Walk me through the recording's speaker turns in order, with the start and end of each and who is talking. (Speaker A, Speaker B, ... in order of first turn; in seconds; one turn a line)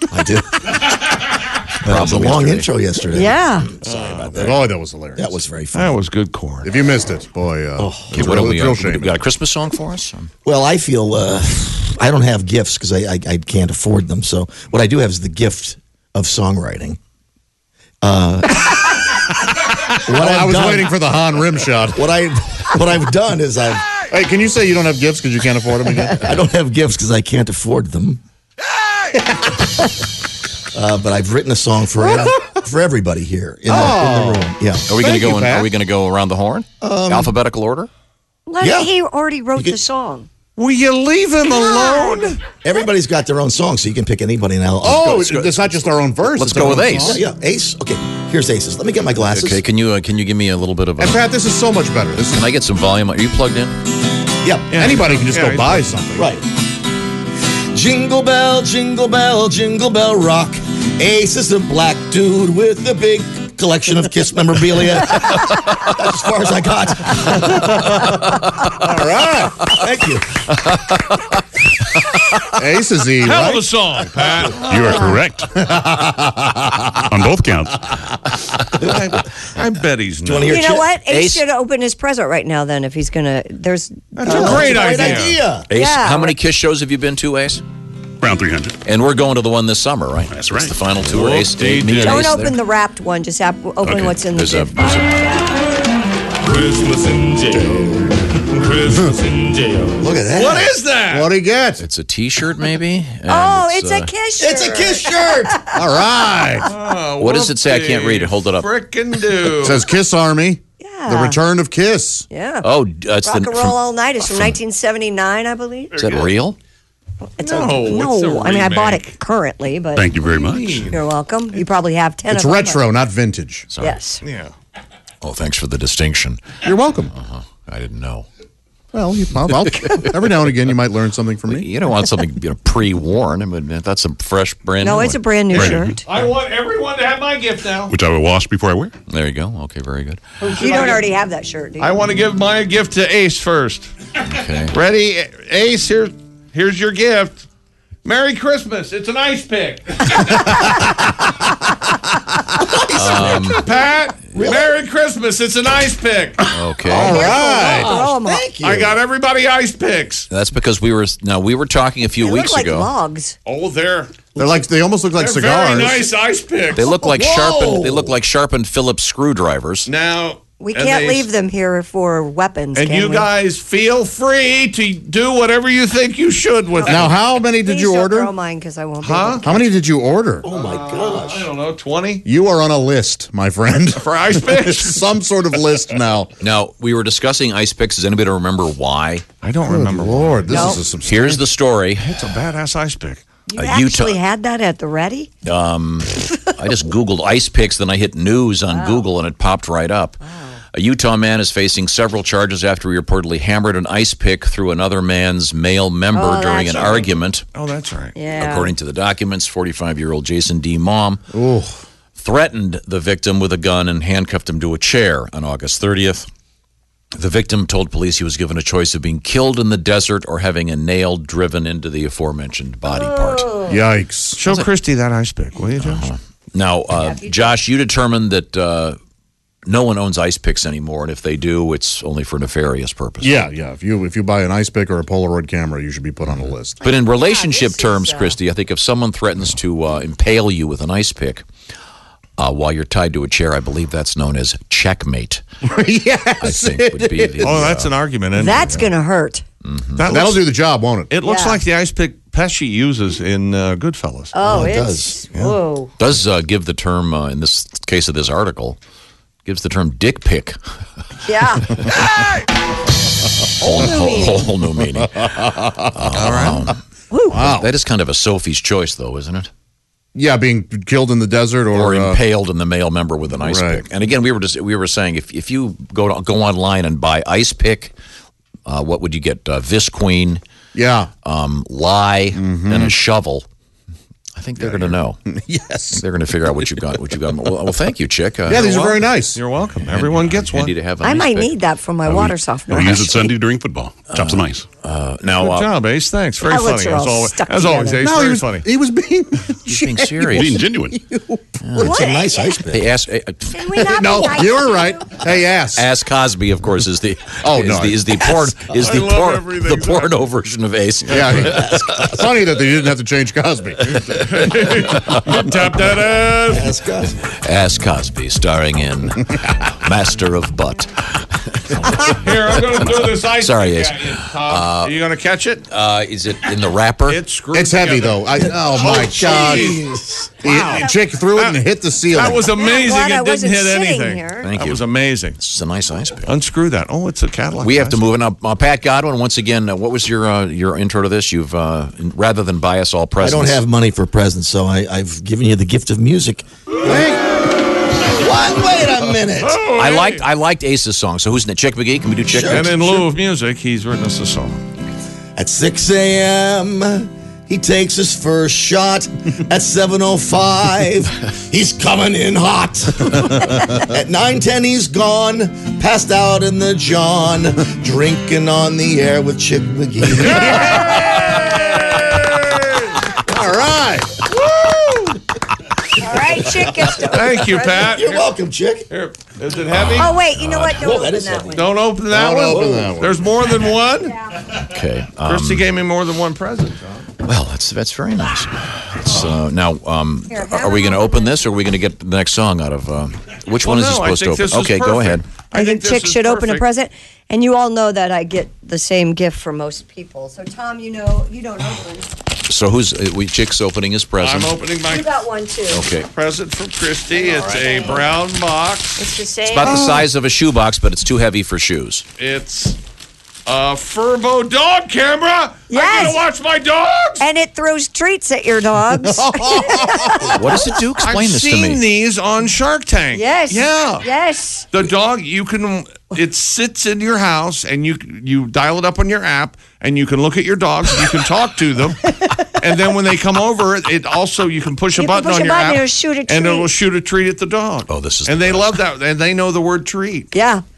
Speaker A: 0.1-0.9
Speaker A: 1.8-6.0
Speaker B: 1.9-2.7
Speaker C: 3.1-3.7
Speaker D: 3.8-4.5
Speaker E: 4.3-5.4
Speaker D: 5.7-6.7
Speaker E: 6.6-9.3
Speaker A: 7.8-8.4
Speaker B: 8.1-10.3
Speaker A: 10.4-17.0
Speaker A: 18.0-18.8
Speaker E: 19.9-22.1
Speaker A: 20.0-21.0
Speaker A: 21.9-23.9
Speaker E: 24.1-26.3
Speaker A: 26.1-28.2
Speaker E: 29.1-29.6
Speaker A: 30.7-34.9
Speaker E: 33.7-35.8
Speaker B: 34.9-37.9
Speaker A: 36.8-37.3
Speaker C: 38.5-40.3
Speaker A: 38.6-38.9
Speaker A: 39.6-39.8
Speaker D: 40.6-42.4
Speaker C: 41.4-42.4
Speaker A: 42.6-45.6
Speaker E: 44.8-47.2
Speaker B: 45.3-47.2
Speaker A: 47.1-49.6
Speaker B: 49.3-51.2
Speaker E: 51.0-52.5
Speaker B: 52.2-53.7
Speaker A: 54.4-54.7
Speaker D: 54.7-56.0
Speaker E: 54.8-56.3
Speaker A: 56.2-56.5
Speaker A: 57.7-67.6
Speaker E: 67.3-69.7
Speaker A: 69.7-70.4
Speaker B: 70.7-71.1
Speaker E: 72.5-73.6
Speaker D: 73.2-74.8
Speaker F: 74.6-75.5
Speaker E: 75.6-77.1
Speaker F: 77.1-77.9
Speaker D: 78.8-80.6
Speaker A: 80.2-80.9
Speaker C: 80.5-86.4
Speaker B: 81.1-81.4
Speaker D: 84.1-85.4
Speaker A: 84.2-85.7
Speaker E: 84.3-84.6
Speaker B: 85.7-87.6
Speaker F: 88.2-88.8
Speaker B: 88.8-92.6
Speaker F: 90.3-90.8
Speaker D: 91.0-92.3
Speaker C: 92.0-95.4
Speaker B: 93.8-95.2
Speaker D: 96.4-101.3
Speaker A: 100.0-100.8
Speaker E: 101.1-101.8
Speaker B: 101.8-104.1
Speaker C: 103.3-105.8
Speaker A: 104.4-105.6
Speaker E: 105.7-106.7
Speaker D: 106.7-109.9
Speaker B: 107.2-108.7
Speaker E: 109.5-112.3
Speaker C: 110.8-111.4
Speaker C: 112.3-112.7
Speaker B: 112.6-114.6
Speaker C: 113.2-116.2
Speaker B: 116.0-116.6
Speaker C: 117.4-120.0
Speaker D: 117.4-119.2
Speaker F: 120.0-121.0
Speaker D: 120.2-121.0
Speaker C: 120.9-122.8
Speaker E: 122.3-123.7
Speaker B: 123.7-124.0
Speaker C: 123.8-124.2
Speaker D: 124.2-124.5
Speaker B: 125.2-126.4
Speaker E: 126.6-127.1
Speaker B: 127.2-128.3
Speaker E: 128.9-131.7
Speaker B: 131.5-135.8
Speaker C: 134.8-136.0
Speaker F: 135.5-135.9
Speaker D: 136.1-137.9
Speaker F: 137.9-138.9
Speaker B: 139.1-140.2
Speaker D: 140.4-141.1
Speaker C: 140.5-142.0
Speaker D: 141.8-143.9
Speaker B: 144.2-144.8
Speaker D: 144.7-147.5
Speaker D: 148.0-150.5
Speaker A: 152.7-153.4
Speaker B: 152.9-153.6
Speaker D: 153.2-156.4
Speaker A: 154.3-154.7
Speaker B: 156.5-157.3
Speaker E: 156.8-157.9
Speaker C: 156.9-158.5
Speaker A: 157.3-159.0
Speaker D: 158.6-160.3
Speaker B: 160.3-162.9
Speaker C: 162.2-163.4
Speaker D: 163.4-164.1
Speaker E: 164.4-166.1
Speaker D: 165.2-166.9
Speaker B: 166.8-169.9
Speaker A: 167.0-168.1
Speaker D: 169.9-171.3
Speaker C: 170.6-173.3
Speaker D: 172.8-177.2
Speaker C: 176.8-179.5
Speaker E: 176.9-178.3
Speaker D: 179.0-179.5
Speaker E: 179.4-180.4
Speaker A: 180.4-181.5
Speaker D: 180.5-182.2
Speaker E: 182.2-186.3
Speaker D: 183.9-185.0
Speaker B: 186.4-189.3
Speaker D: 189.4-190.8
Speaker E: 189.7-191.4
Speaker C: 190.5-190.8
Speaker B: 191.0-192.2
Speaker D: 192.0-193.2
Speaker C: 193.5-195.3
Speaker B: 193.6-194.2
Speaker B: 195.4-200.2
Speaker C: 198.7-199.1
Speaker C: 200.2-200.6
Speaker B: 200.7-207.4
Speaker C: 206.1-207.1
Speaker D: 207.5-208.2
Speaker C: 208.2-208.7
Speaker B: 208.4-211.2
Speaker E: 211.3-211.8
Speaker B: 212.2-216.3
Speaker B: 217.2-223.6
Speaker C: 222.8-223.8
Speaker E: 223.7-224.4
Speaker D: 224.4-226.1
Speaker B: 225.8-229.0
Speaker C: 227.0-227.6
Speaker B: 229.7-233.5
Speaker E: 233.2-236.8
Speaker B: 236.3-241.5
Speaker C: 236.8-238.4
Speaker B: 242.4-245.4
Speaker E: 245.7-247.8
Speaker B: 246.4-247.9
Speaker D: 247.4-248.8
Speaker C: 248.3-249.4
Speaker B: 249.6-250.2
Speaker D: 250.0-250.5
Speaker E: 250.1-251.1
Speaker D: 251.1-254.3
Speaker C: 251.2-251.6
Speaker C: 254.3-255.9
Speaker A: 254.4-255.2
Speaker B: 256.0-258.8
Speaker B: 259.4-260.6
Speaker C: 261.3-261.8
Speaker B: 263.6-265.4
Speaker C: 263.6-264.5
Speaker E: 265.2-266.4
Speaker B: 265.9-269.5
Speaker D: 266.2-266.7
Speaker C: 267.1-267.4
Speaker E: 267.3-267.7
Speaker E: 270.1-272.2
Speaker B: 271.7-277.9
Speaker E: 273.4-273.9
Speaker B: 278.7-280.4
Speaker E: 280.7-281.1
Speaker B: 281.2-283.5
Speaker E: 282.4-283.0
Speaker B: 284.4-285.2
Speaker E: 284.6-286.0
Speaker B: 285.9-288.7
Speaker E: 288.4-289.4
Speaker D: 288.5-290.7
Speaker B: 289.8-291.6
Speaker C: 291.0-293.3
Speaker F: 292.1-294.7
Speaker B: 292.8-293.2
Speaker B: 294.1-295.7
Speaker D: 295.4-298.7
Speaker C: 296.5-298.0
Speaker E: 298.0-301.5
Speaker B: 299.7-300.6
Speaker F: 300.3-301.0
Speaker B: 301.6-302.0
Speaker C: 301.8-302.5
Speaker A: 301.8-302.9
Speaker B: 302.7-303.9
Speaker C: 303.5-305.1
Speaker E: 303.8-305.9
Speaker B: 305.8-312.1
Speaker E: 307.4-308.3
Speaker D: 308.6-310.2
Speaker E: 311.1-314.4
Speaker A: 311.4-312.2
Speaker D: 314.1-316.7
Speaker B: 314.9-315.2
Speaker A: 316.5-317.1
Speaker B: 317.3-325.0
Speaker D: 322.1-325.6
Speaker B: 325.7-327.2
Speaker D: 327.1-329.8
Speaker E: 327.5-329.8
Speaker A: 328.3-330.5
Speaker E: 330.4-332.5
Speaker C: 330.4-331.0
Speaker D: 331.3-335.4
Speaker C: 332.5-334.5
Speaker B: 334.4-334.9
Speaker B: 335.4-336.3
Speaker D: 336.3-338.0
Speaker B: 337.6-343.6
Speaker A: 343.2-347.1
Speaker E: 346.8-347.2
Speaker A: 348.0-349.6
Speaker D: 349.4-350.2
Speaker B: 349.7-353.0
Speaker A: 352.3-352.9
Speaker D: 352.4-354.6
Speaker A: 355.4-370.8
Speaker E: 370.2-372.1
Speaker D: 370.9-372.5
Speaker C: 371.0-371.4
Speaker E: 373.1-375.1
Speaker C: 376.0-377.9
Speaker D: 377.0-378.3
Speaker A: 377.8-378.9
Speaker D: 378.9-380.1
Speaker B: 379.8-380.8
Speaker C: 380.0-381.6
Speaker A: 380.7-381.8
Speaker D: 381.5-384.2
Speaker E: 382.1-383.3
Speaker A: 382.5-382.9
Speaker B: 384.6-385.7
Speaker D: 385.2-387.1
Speaker B: 387.2-395.3
Speaker C: 390.3-391.4
Speaker D: 393.6-396.6
Speaker C: 395.5-402.1
Speaker B: 402.5-404.6
Speaker D: 404.2-405.2
Speaker C: 404.9-405.9
Speaker B: 405.7-406.1
Speaker D: 406.1-409.0
Speaker C: 407.2-408.0
Speaker C: 409.0-409.9
Speaker B: 409.5-412.1
Speaker E: 409.6-410.0
Speaker D: 412.2-412.8
Speaker D: 413.5-417.2
Speaker C: 415.7-416.2
Speaker C: 417.2-420.5
Speaker E: 419.0-420.4
Speaker B: 420.4-421.8
Speaker D: 421.0-424.1
Speaker C: 423.1-424.7
Speaker D: 424.7-440.3
Speaker C: 435.0-436.7
Speaker B: 437.9-438.8
Speaker C: 440.3-440.6